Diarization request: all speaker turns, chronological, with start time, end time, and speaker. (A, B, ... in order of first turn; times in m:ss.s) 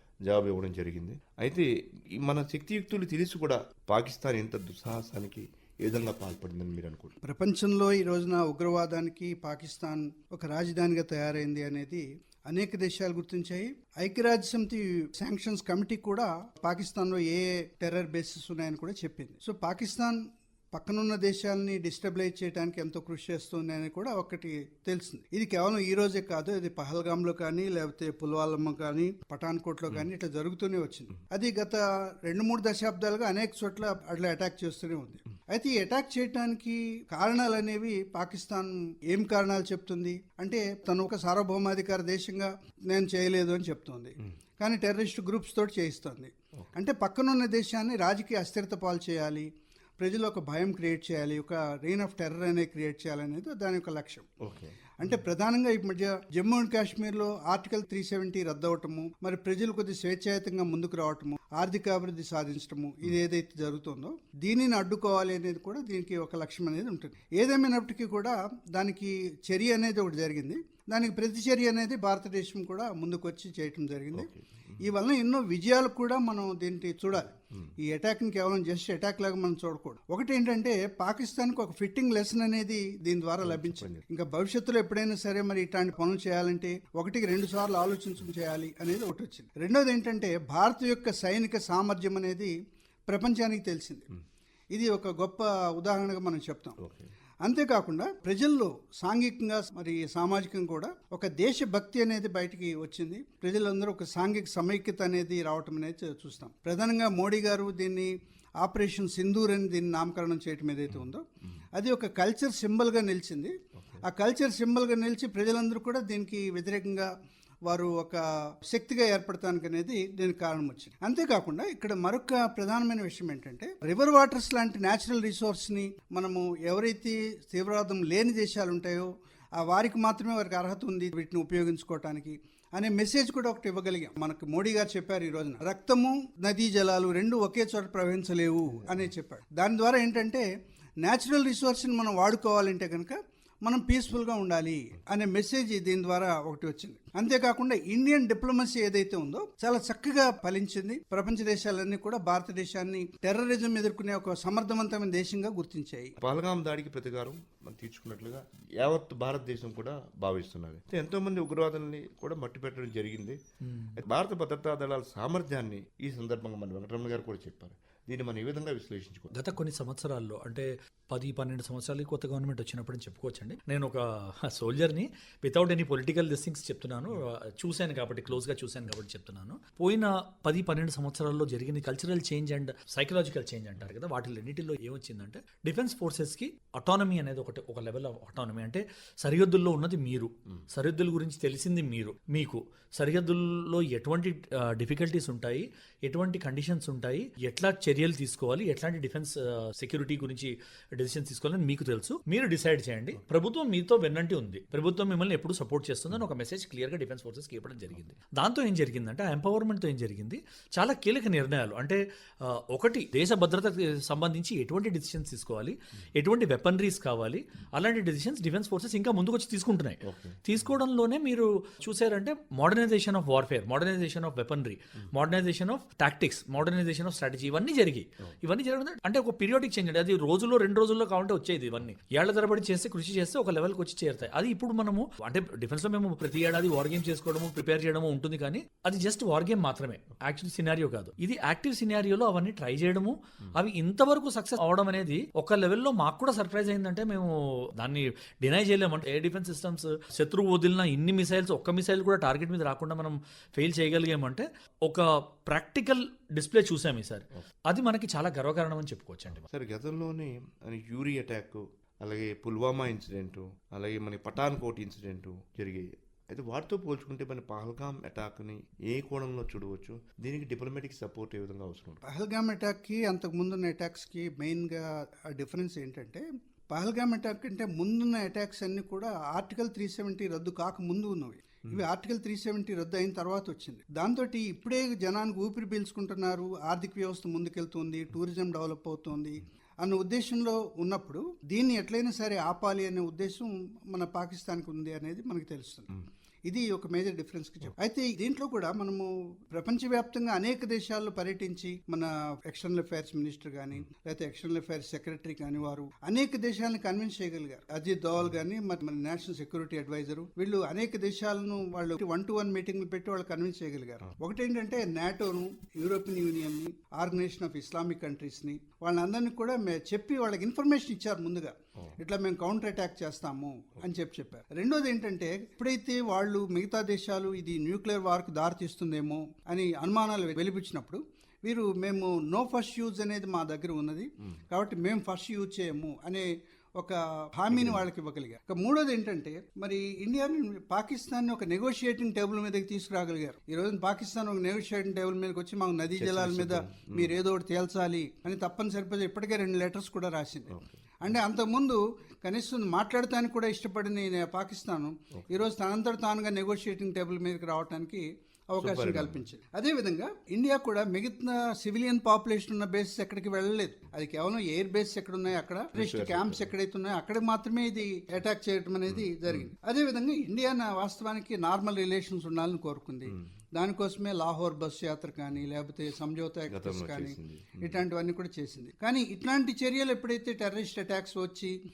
0:00.2-0:07.2 A
0:07.2-0:20.2 B
0:20.7-0:49.5 B
0:50.0-0:54.3 B
0:54.4-0:54.8 A
0:55.0-1:14.3 B
1:14.1-1:14.9 A
1:14.8-1:32.5 B
1:23.4-1:24.0 A
1:33.1-1:34.1 B
1:34.7-1:36.8 B
1:36.8-1:37.1 A
1:37.4-1:57.1 B
1:53.8-1:54.0 A
1:57.6-2:20.4 B
2:21.0-2:36.2 B
2:36.2-2:43.4 A
2:43.6-2:44.0 C
2:44.0-2:49.3 A
2:49.3-4:19.5 C
3:40.0-3:40.4 A
4:19.5-4:32.0 A
4:32.1-4:55.9 B
4:56.4-6:21.6 B
5:37.5-5:37.8 A
5:46.0-5:47.2 A
5:50.5-5:50.8 A
5:58.6-5:59.3 A
6:05.7-6:06.5 A
6:08.9-6:09.5 A
6:16.5-6:17.8 A